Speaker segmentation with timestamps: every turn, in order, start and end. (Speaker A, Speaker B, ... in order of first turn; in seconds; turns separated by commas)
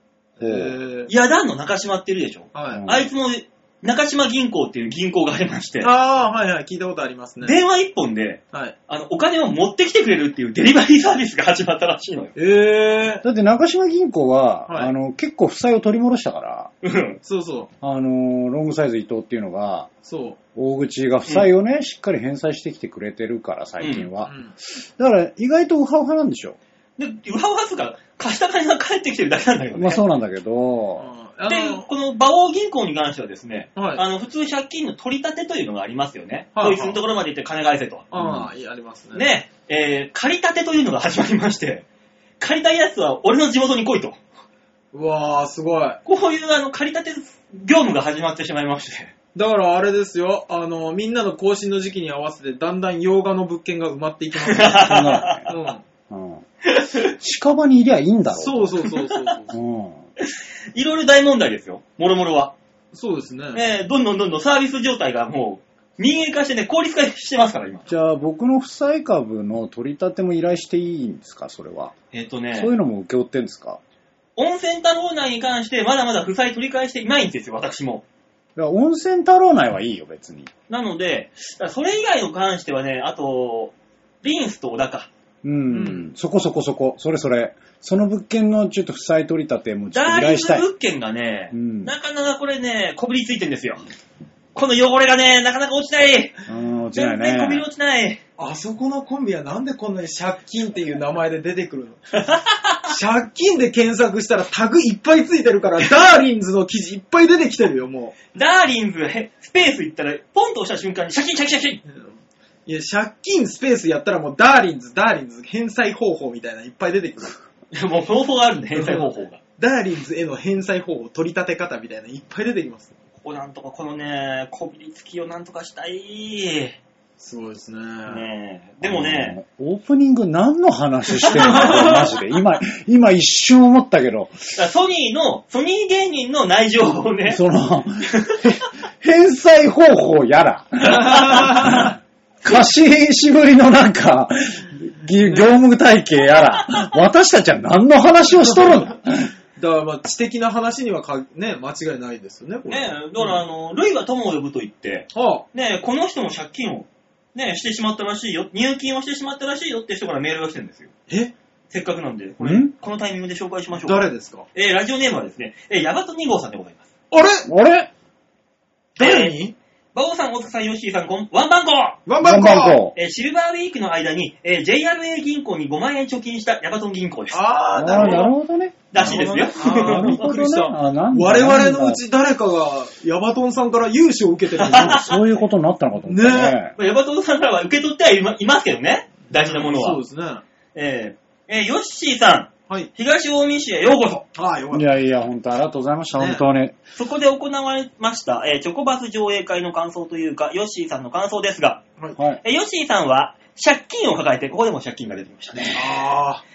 Speaker A: 0.4-1.1, Speaker B: 0.4-0.7, Speaker C: 1.1-5.9, Speaker A: 2.5-2.9, Speaker B: 2.7-3.0, Speaker A: 5.8-7.6, Speaker C: 7.4-12.3, Speaker A: 12.3-13.2, Speaker B: 13.2-16.7, Speaker A: 14.7-14.9, Speaker C: 16.8-17.2, Speaker A: 17.2-17.7, Speaker B: 17.8-19.9, Speaker A: 20.0-20.4, Speaker B: 20.5-26.6, Speaker C: 23.8-24.1, Speaker A: 24.2-24.5, Speaker C: 27.0-30.0, Speaker B: 29.7-31.1, Speaker A: 31.0-31.9, Speaker C: 31.5-38.1, Speaker A: 33.8-34.0, Speaker A: 36.5-37.0, Speaker A: 38.1-39.3, Speaker B: 38.1-38.5, Speaker C: 39.1-41.8, Speaker C: 42.4-44.2, Speaker A: 44.9-46.0, Speaker C: 46.0-49.1, Speaker A: 49.3-54.9, Speaker C: 54.4-55.5, Speaker B: 54.7-55.5, Speaker A: 55.5-55.8, Speaker B: 56.1-56.4, Speaker C: 56.7-57.1, Speaker B: 57.0-58.8, Speaker A: 58.3-59.6, Speaker B: 59.5-60.0, Speaker C: 60.2-62.5, Speaker A: 62.9-63.6, Speaker C: 63.5-67.9, Speaker B: 67.9-71.9, Speaker C: 72.1-72.7, Speaker B: 72.5-73.8, Speaker C: 74.3-78.0, Speaker B: 78.5-80.5, Speaker C: 80.7-85.1, Speaker B: 85.4-90.7, Speaker A: 85.7-86.0, Speaker C: 89.9-93.8, Speaker B: 91.5-91.9, Speaker C: 94.5-96.3, Speaker B: 96.5-97.7, Speaker C: 96.9-98.2, Speaker A: 98.4-102.1, Speaker C: 102.2-102.8, Speaker A: 102.9-108.2, Speaker C: 108.3-111.8, Speaker A: 111.8-117.4, Speaker C: 117.7-119.4, Speaker A: 118.8-122.9, Speaker C: 123.2-126.8, Speaker A: 127.2-128.2, Speaker C: 128.1-129.4, Speaker B: 128.8-134.3, Speaker C: 131.2-131.9, Speaker A: 131.4-132.1, Speaker C: 134.5-137.4, Speaker B: 137.3-149.3, Speaker C: 138.1-138.4, Speaker C: 141.0-141.4, Speaker A: 141.2-141.7, Speaker A: 149.6-153.4, Speaker C: 152.7-160.9, Speaker A: 155.1-155.4, Speaker C: 161.7-166.9, Speaker B: 162.4-162.7, Speaker A: 163.7-164.5, Speaker A: 167.1-167.5, Speaker B: 167.5-167.9, Speaker C: 169.0-169.4, Speaker A: 169.0-169.5, Speaker C: 169.9-172.0, Speaker A: 172.1-172.8, Speaker B: 172.2-172.9, Speaker C: 172.9-178.3, Speaker A: 177.3-178.3, Speaker B: 177.7-182.0, Speaker C: 178.9-180.2, Speaker A: 179.0-185.2, Speaker B: 184.6-186.7, Speaker C: 184.6-185.0, Speaker A: 186.0-186.6, Speaker C: 186.8-190.0, Speaker A: 189.3-190.4, Speaker C: 190.7-194.2, Speaker A: 194.3-194.9, Speaker B: 194.7-196.8, Speaker A: 196.2-196.4, Speaker C: 196.9-201.8, Speaker C: 202.4-206.0, Speaker A: 205.7-206.4